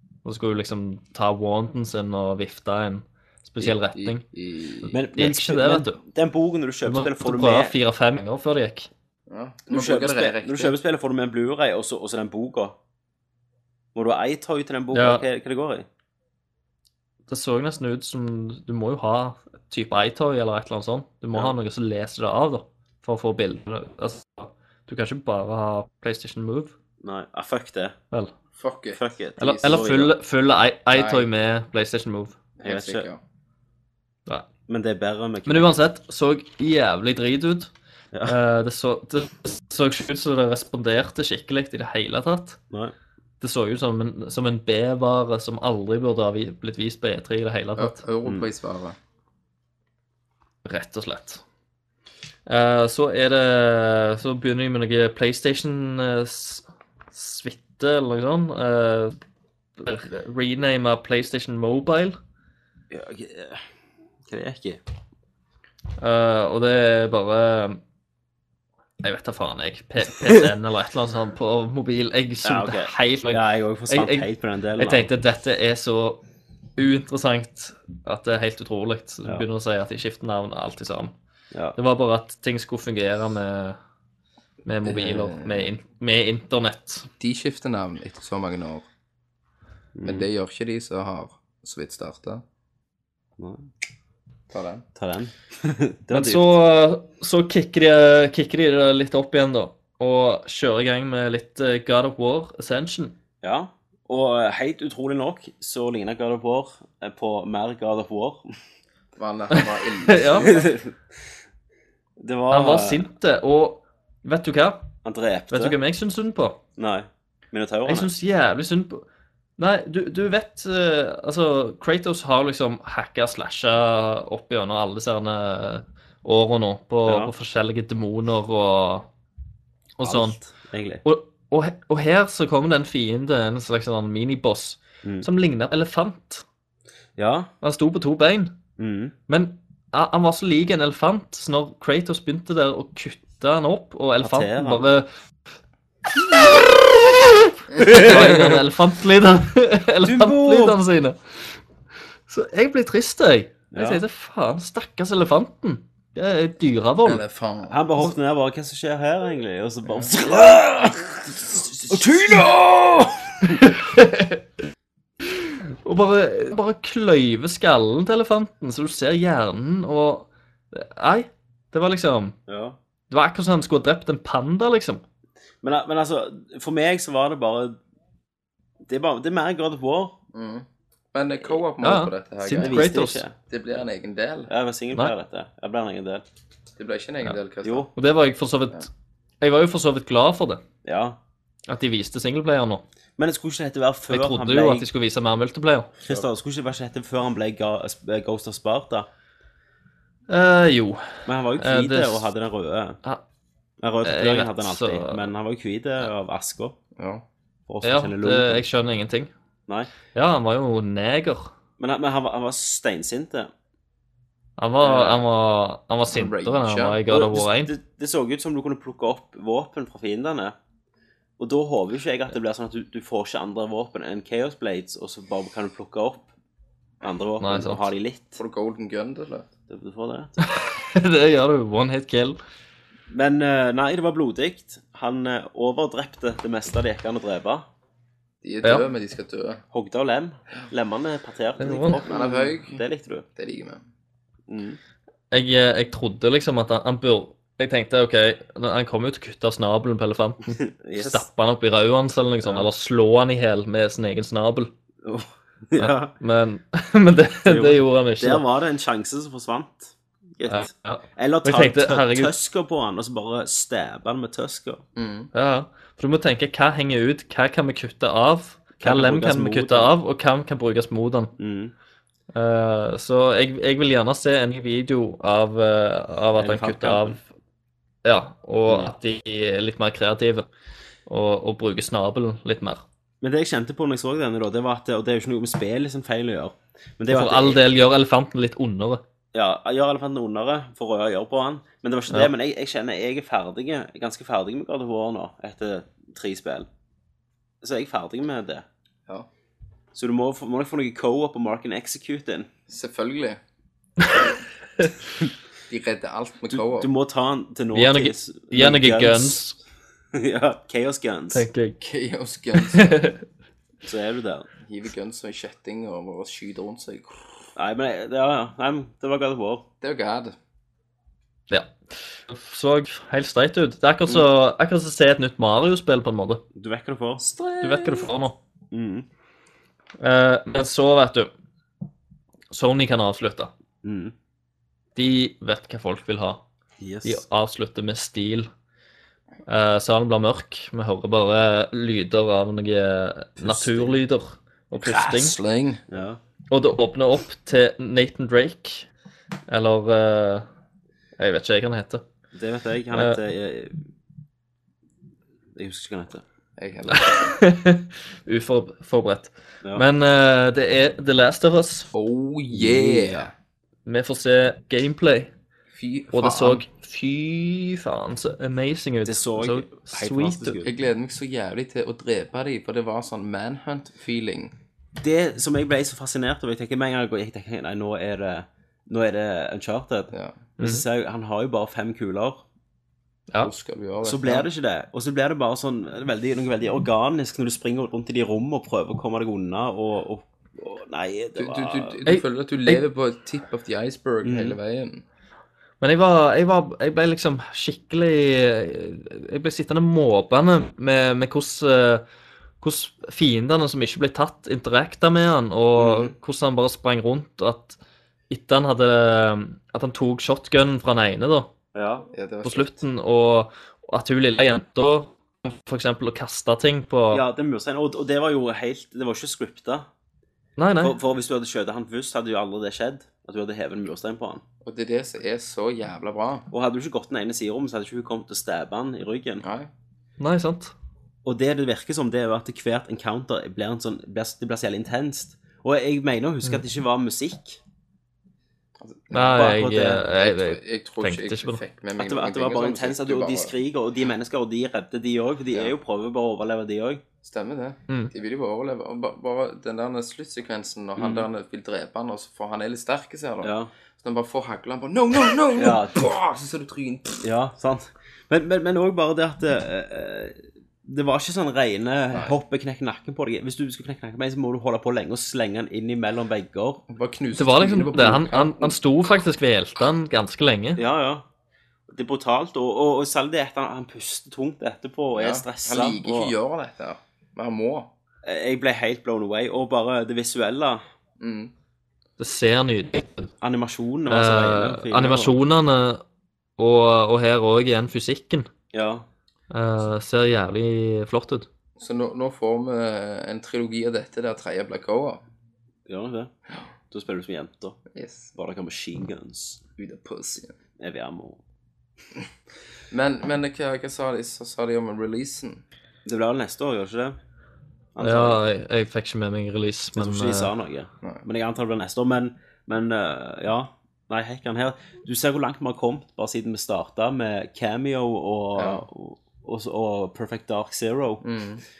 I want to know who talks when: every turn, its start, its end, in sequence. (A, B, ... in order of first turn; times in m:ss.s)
0:00.2-0:04.2 A
0:03.6-0:04.9 B
0:04.9-0:07.8 C
0:05.2-0:06.0 A
0:06.9-0:08.9 A
0:09.3-0:10.8 B
0:09.7-0:12.8 C
0:14.0-0:15.9 C
0:14.9-0:15.2 A
0:17.3-0:26.8 A
0:27.0-0:28.0 C
0:28.6-0:30.0 B
0:29.0-0:30.1 C
0:29.4-0:32.4 A
0:30.9-0:31.3 B
0:32.6-0:33.2 B
0:32.6-0:33.1 C
0:34.7-0:35.8 C
0:35.5-0:37.7 A
0:38.3-0:42.6 A
0:43.4-0:48.0 A
0:47.8-0:49.0 B
0:50.6-0:51.4 A
0:52.5-0:59.2 A
0:59.8-1:02.2 A
1:02.9-1:03.7 C
1:04.3-1:04.8 C
1:06.0-1:07.8 A
1:09.0-1:16.2 A
1:12.4-1:15.1 C
1:16.8-1:21.2 A
1:21.5-1:21.8 C
1:21.8-1:23.8 A
1:24.6-1:27.1 A
1:24.8-1:25.7 B
1:27.2-1:28.9 B
1:30.0-1:30.3 C
1:30.0-1:32.4 B
1:33.4-1:33.7 C
1:34.5-1:34.8 B
1:35.0-1:36.6 C
1:36.1-1:43.2 A
1:43.4-1:48.5 C
1:49.2-1:50.7 B
1:49.5-1:50.6 A
1:50.4-1:50.9 C
1:52.2-1:53.0 C
1:52.5-1:54.9 A
1:55.0-1:55.8 C
1:55.5-1:56.6 A
1:56.8-1:58.1 C
1:57.9-1:59.0 A
1:59.6-2:09.1 A
2:07.1-2:07.3 C
2:10.0-2:10.4 A
2:10.0-2:11.0 C
2:11.0-2:16.4 A
2:17.2-2:17.5 C
2:17.6-2:18.6 A
2:18.8-2:19.2 C
2:19.3-2:25.1 A
2:24.2-2:24.8 C
2:26.1-2:31.6 A
2:27.8-2:28.5 C
2:30.0-2:30.8 C
2:32.3-2:37.2 A
2:33.7-2:34.0 C
2:37.0-2:37.8 B
2:37.7-2:43.6 C
2:43.5-2:44.4 A
2:45.4-2:52.4 A
2:52.5-2:52.8 C
2:53.1-2:55.0 A
2:55.6-2:57.8 C
2:58.9-3:00.2 C
3:00.3-3:02.8 B
3:01.8-3:03.2 A
3:02.6-3:03.4 C
3:03.5-3:04.5 B
3:04.5-3:06.2 C
3:06.8-3:07.9 B
3:07.6-3:07.9 C
3:08.0-3:08.9 A
3:09.4-3:10.6 A
3:10.8-3:11.2 C
3:11.7-3:12.8 A
3:13.2-3:14.9 C
3:14.1-3:15.9 A
3:16.0-3:19.1 C
3:20.3-3:22.3 A
3:21.3-3:23.0 C
3:23.8-3:26.8 C
3:24.0-3:25.3 A
3:27.0-3:27.2 B
3:27.7-3:28.7 C
3:27.8-3:29.3 A
3:30.1-3:31.5 A
3:31.8-3:33.5 C
3:34.6-3:37.7 A
3:34.8-3:35.2 C
3:36.1-3:37.0 B
3:37.1-3:40.6 C
3:41.4-3:46.3 C
3:47.0-3:48.4 C
3:47.4-3:47.9 A
3:48.4-3:49.5 B
3:49.7-3:50.4 C
3:50.4-3:52.4 A
3:53.1-3:57.7 C
3:58.4-3:59.6 B
3:59.7-4:03.3 C
4:01.6-4:02.0 A
4:02.0-4:02.8 B
4:03.4-4:03.8 B
4:04.5-4:04.8 C
4:05.3-4:14.7 A
4:10.6-4:11.2 C
4:12.4-4:12.7 C
4:15.0-4:16.1 C
4:15.8-4:18.4 A
4:17.5-4:24.8 C
4:20.5-4:22.3 A
4:25.0-4:25.3 B
4:25.3-4:31.3 A
4:28.8-4:29.9 C
4:31.4-4:31.7 C
4:32.3-4:37.2 A
4:36.4-4:37.2 C
4:38.0-4:40.5 A
4:41.1-4:42.8 A
4:43.2-4:47.6 C
4:47.1-4:49.0 A
4:49.3-4:56.7 C
4:57.6-4:58.6 C
4:59.9-5:02.5 C
5:02.7-5:03.4 B
5:05.7-5:06.9 B
5:06.5-5:09.4 C
5:07.7-5:09.6 A
5:10.1-5:11.5 C
5:11.3-5:11.8 A
5:11.8-5:13.0 B
5:12.6-5:13.2 A
5:13.8-5:14.5 C
5:14.6-5:17.4 B
5:17.6-5:19.7 C
5:19.8-5:20.4 B
5:22.3-5:26.4 A
5:26.5-5:27.4 C
5:27.3-5:28.0 B
5:27.6-5:28.4 A
5:28.7-5:29.1 C
5:30.0-5:31.3 A
5:32.5-5:33.5 A
5:33.8-5:34.1 C
5:35.0-5:36.4 A
5:36.8-5:37.2 C
5:37.0-5:38.5 A
5:39.5-5:45.4 A
5:43.4-5:44.0 B
5:44.9-5:45.8 B
5:45.9-5:46.2 C
5:46.5-5:48.9 A
5:49.5-5:50.5 A
5:51.2-5:52.0 A
5:52.3-5:53.8 C
5:52.9-5:53.2 A
5:55.6-5:56.2 C
5:56.6-5:57.3 B
5:56.9-6:01.9 A
6:01.9-6:03.3 B
6:02.5-6:03.3 C
6:03.9-6:05.3 A
6:05.7-6:06.6 B
6:06.1-6:10.6 A
6:09.1-6:10.7 C
6:10.6-6:14.5 B
6:15.0-6:22.4 C
6:20.1-6:20.4 B
6:20.6-6:20.8 A
6:23.4-6:24.5 B
6:24.0-6:32.0 C
6:31.4-6:35.0 B
6:32.1-6:32.8 A
6:34.2-6:34.6 C
6:35.8-6:42.0 A
6:42.6-6:47.8 A
6:45.8-6:46.2 C
6:48.3-6:51.5 A
6:51.7-6:52.1 C
6:52.1-6:52.8 B
6:52.4-6:57.2 A
6:57.1-6:59.9 C
7:00.6-7:01.0 A
7:00.8-7:04.4 C
7:04.6-7:06.5 B
7:06.5-7:09.4 C
7:09.4-7:09.7 B
7:10.2-7:10.7 A
7:11.2-7:17.6 C
7:18.8-7:23.5 B
7:19.1-7:21.6 A
7:19.3-7:20.0 C
7:22.0-7:27.0 C
7:27.2-7:37.3 B
7:31.0-7:31.3 C
7:33.4-7:33.7 C
7:35.6-7:36.0 C
7:37.2-7:46.8 C
7:46.9-7:48.8 B
7:47.4-7:50.8 A
7:50.8-7:51.2 C
7:51.9-7:56.4 C
7:55.2-7:57.9 B
7:58.2-8:00.8 C
8:01.2-8:01.5 B
8:02.2-8:03.3 A
8:03.4-8:05.4 C
8:04.1-8:06.0 A
8:06.6-8:08.5 A
8:08.7-8:09.1 C
8:09.5-8:11.5 A
8:11.8-8:15.2 B
8:15.9-8:16.3 C
8:16.9-8:17.8 C
8:17.9-8:18.3 B
8:18.4-8:19.6 C
8:19.8-8:20.5 B
8:20.8-8:21.4 C
8:22.9-8:25.6 B
8:26.0-8:27.2 C
8:28.0-8:28.4 C
8:28.0-8:30.5 A
8:30.0-8:41.3 C
8:38.6-8:38.8 B
8:41.2-8:41.6 B